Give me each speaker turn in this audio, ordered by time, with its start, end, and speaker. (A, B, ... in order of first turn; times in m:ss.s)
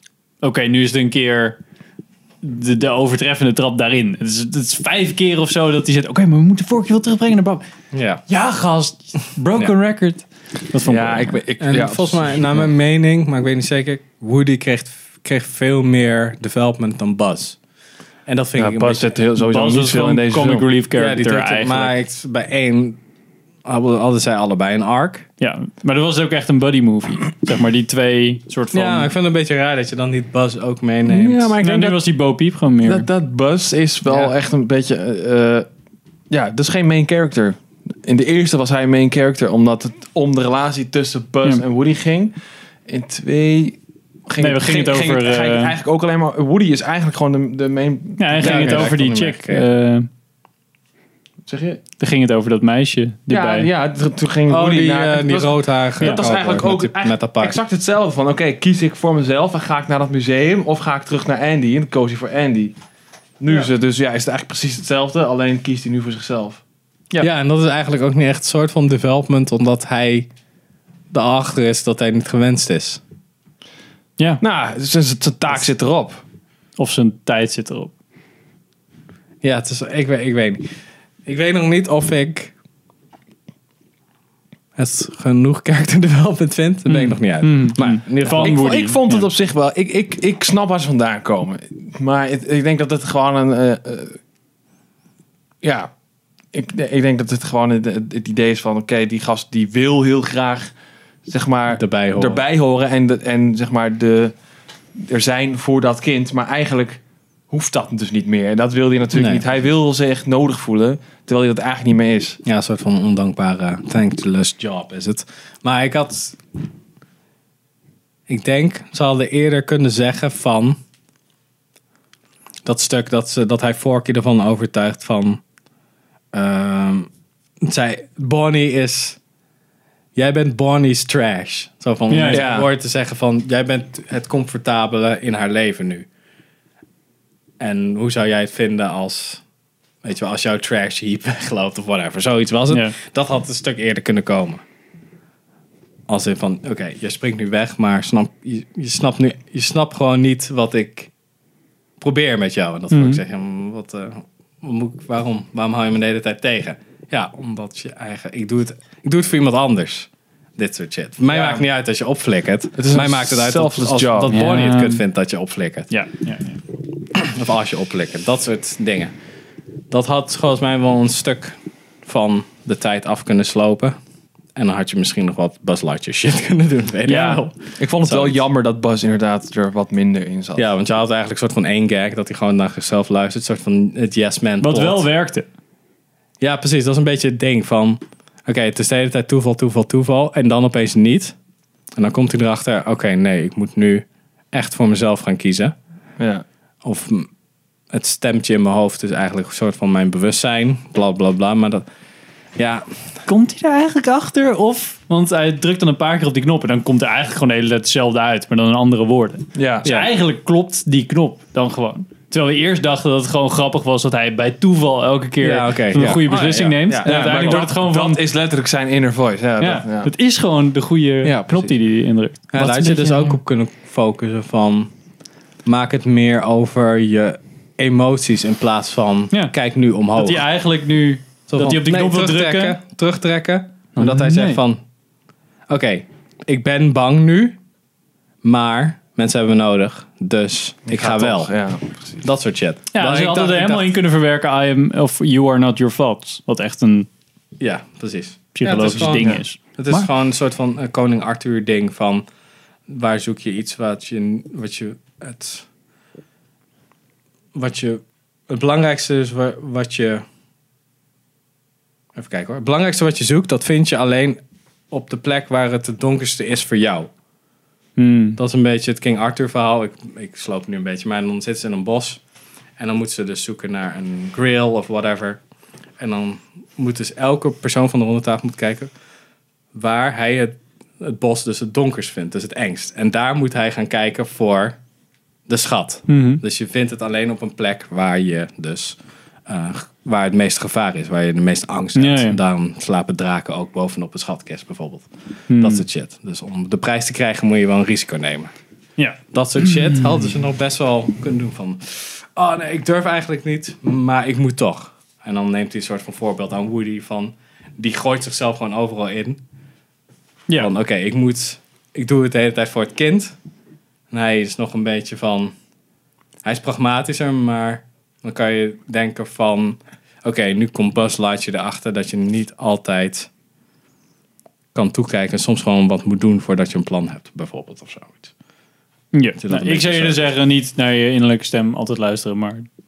0:00.4-0:01.6 A
0:02.4-0:07.6 A
0:07.9-0:08.2 B
0:08.3-0:11.4 A
0:10.9-0:12.5 C
0:11.6-0:17.6 B
0:18.3-0:19.1 B
0:18.6-0:20.7 C
0:19.4-0:22.0 A
0:21.0-0:23.0 B
0:23.6-0:25.3 B
0:25.4-0:29.1 A
0:28.7-0:31.5 B
0:31.1-0:32.0 C
0:31.6-0:33.1 A
0:32.8-0:35.7 C
0:36.3-0:42.4 C
0:42.9-0:48.9 C
0:44.4-0:45.7 A
0:48.2-0:50.1 A
0:48.4-0:49.7 B
0:51.5-0:51.8 C
0:52.0-0:53.7 A
0:53.3-1:02.7 C
0:54.5-0:57.6 B
1:03.4-1:06.6 C
1:07.2-1:10.3 B
1:11.1-1:13.0 B
1:14.4-1:16.2 C
1:16.8-1:17.9 A
1:19.4-1:20.7 B
1:21.3-1:22.5 B
1:24.8-1:28.6 B
1:26.9-1:29.2 A
1:28.3-1:34.2 C
1:35.6-1:35.9 C
1:36.5-1:40.7 C
1:41.3-1:44.3 C
1:41.7-1:42.4 B
1:45.0-1:52.4 C
1:49.1-1:49.4 B
1:52.4-1:56.4 B
1:58.3-2:00.8 B
2:02.6-2:05.4 B
2:06.3-2:07.1 B
2:07.6-2:09.2 B
2:10.2-2:16.1 B
2:12.1-2:12.5 A
2:12.3-2:12.7 C
2:17.6-2:19.4 B
2:20.0-2:24.6 B
2:26.1-2:31.1 B
2:32.0-2:45.9 B
2:32.9-2:33.2 A
2:41.3-2:41.6 C
2:42.8-2:44.4 C
2:44.3-2:45.0 A
2:45.9-2:46.6 A
2:47.2-2:49.1 B
2:49.9-2:54.0 B
2:54.6-2:58.4 B
2:57.1-2:57.5 A
2:57.1-3:00.7 C
3:00.6-3:05.1 B
3:04.6-3:05.5 A
3:06.4-3:11.4 B
3:12.0-3:15.8 B
3:16.2-3:16.4 C
3:16.8-3:17.3 B
3:17.9-3:21.8 B
3:22.6-3:22.9 B
3:23.3-3:38.2 A
3:29.6-3:29.9 C
3:35.4-3:37.6 B
3:36.9-3:40.1 C
3:39.6-3:43.4 A
3:41.3-3:41.6 C
3:42.5-3:44.9 B
3:45.6-3:50.4 B
3:50.2-3:52.8 A
3:51.5-3:54.8 B
3:54.0-3:54.6 A
3:55.7-3:57.6 B
3:58.4-4:01.6 B
4:00.9-4:02.2 C
4:02.2-4:03.9 B
4:02.9-4:07.1 A
4:07.6-4:12.3 B
4:08.5-4:10.1 A
4:08.9-4:09.4 C
4:12.9-4:15.7 B
4:17.5-4:20.2 B
4:22.2-4:27.1 B
4:28.0-4:28.4 A
4:28.4-4:32.2 B
4:32.8-4:35.4 B
4:36.0-4:38.9 B
4:39.7-4:44.8 B
4:45.5-4:58.5 B
4:46.1-4:46.4 A
4:52.0-4:52.4 A
4:55.5-4:55.9 A
4:59.0-5:00.2 A
4:59.3-5:09.4 B
5:10.6-5:13.4 B
5:14.1-5:15.5 B
5:16.4-5:23.3 B
5:24.7-5:28.3 B
5:29.1-5:32.7 A
5:29.4-5:30.2 B